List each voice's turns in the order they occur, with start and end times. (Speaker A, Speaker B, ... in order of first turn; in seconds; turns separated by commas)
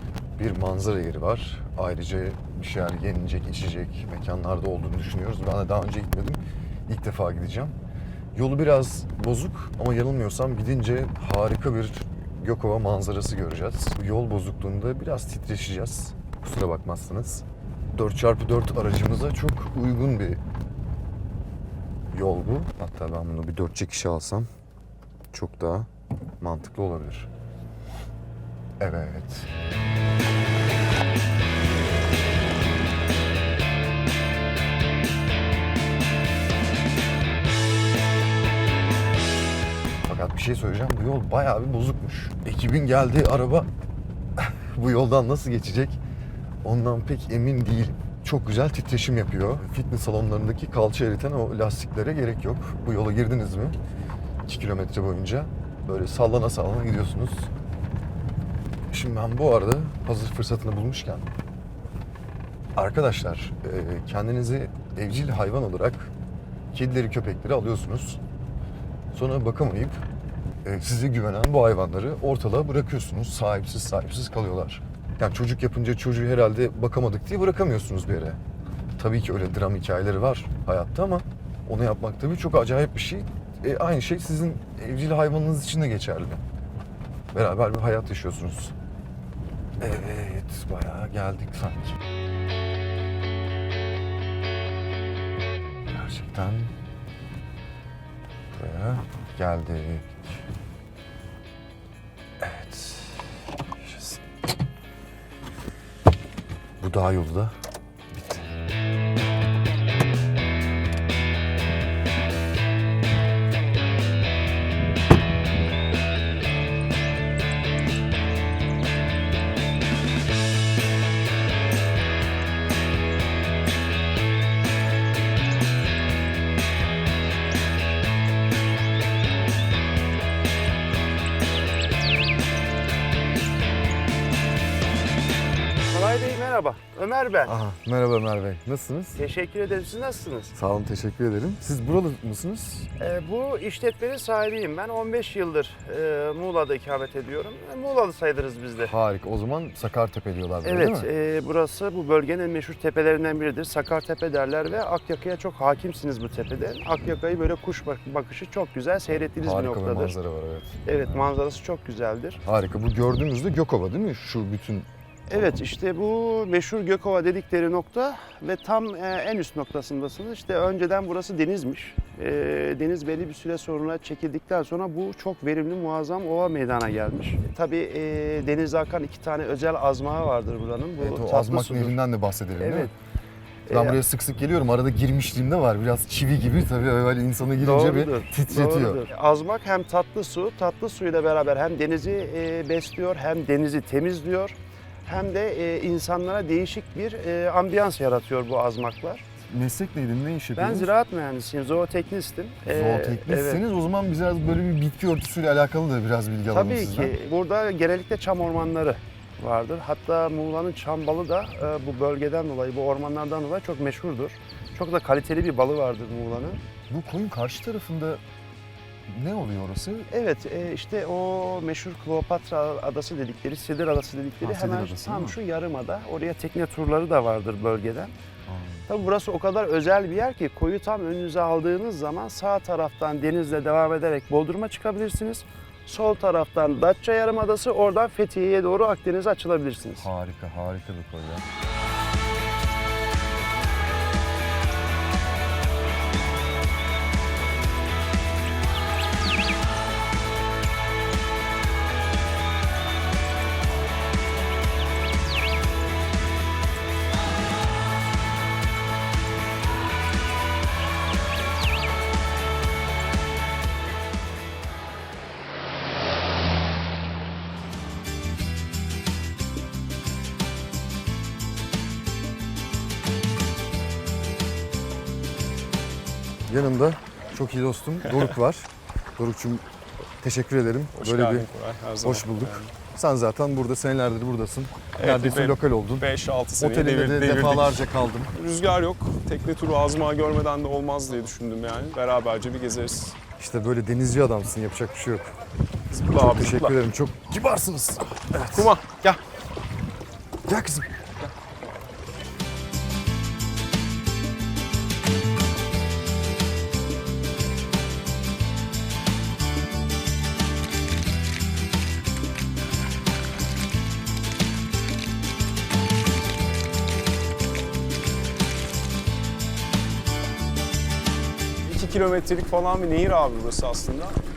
Speaker A: 0.4-7.8, Speaker A: 8.3-20.4, Speaker A: 22.1-24.5, Speaker A: 25.3-25.9, Speaker A: 26.4-27.3, Speaker A: 28.8-29.5, Speaker A: 40.0-43.7, Speaker A: 44.4-46.0, Speaker A: 46.6-53.8, Speaker A: 54.5-57.5, Speaker A: 58.9-61.3, Speaker A: 62.8-66.1, Speaker A: 66.7-68.2, Speaker A: 69.1-70.0, Speaker A: 70.6-78.4, Speaker A: 79.0-86.4, Speaker A: 87.3-88.7, Speaker A: 89.8-92.0, Speaker A: 95.9-96.7, Speaker A: 98.5-100.2, Speaker A: 102.4-104.2, Speaker A: 106.8-107.5, Speaker B: 135.9-137.6, Speaker A: 137.5-139.2, Speaker B: 139.2-140.5, Speaker A: 140.6-142.9, Speaker B: 143.0-148.9, Speaker A: 148.8-151.1, Speaker B: 150.6-160.2, Speaker A: 159.4-160.8, Speaker B: 160.8-162.4, Speaker A: 162.4-164.9, Speaker B: 165.3-182.0, Speaker A: 181.0-182.9, Speaker B: 182.6-182.9, Speaker B: 183.7-184.0, Speaker A: 183.7-189.0, Speaker B: 187.6-199.2, Speaker A: 199.5-200.9, Speaker B: 200.6-203.6, Speaker A: 202.7-207.2, Speaker B: 206.5-216.6, Speaker A: 216.9-218.2, Speaker A: 219.1-220.1, Speaker B: 220.1-228.1, Speaker A: 224.4-225.4, Speaker A: 228.5-228.9, Speaker B: 228.9-240.1, Speaker A: 240.0-241.4, Speaker A: 276.5-279.6, Speaker A: 280.2-281.5, Speaker C: 280.9-282.7, Speaker A: 282.0-286.1, Speaker C: 284.9-293.2, Speaker A: 286.6-288.3, Speaker A: 293.4-295.3, Speaker C: 295.9-296.8, Speaker A: 296.0-298.7, Speaker C: 298.4-299.2, Speaker A: 300.4-301.3, Speaker C: 321.6-324.2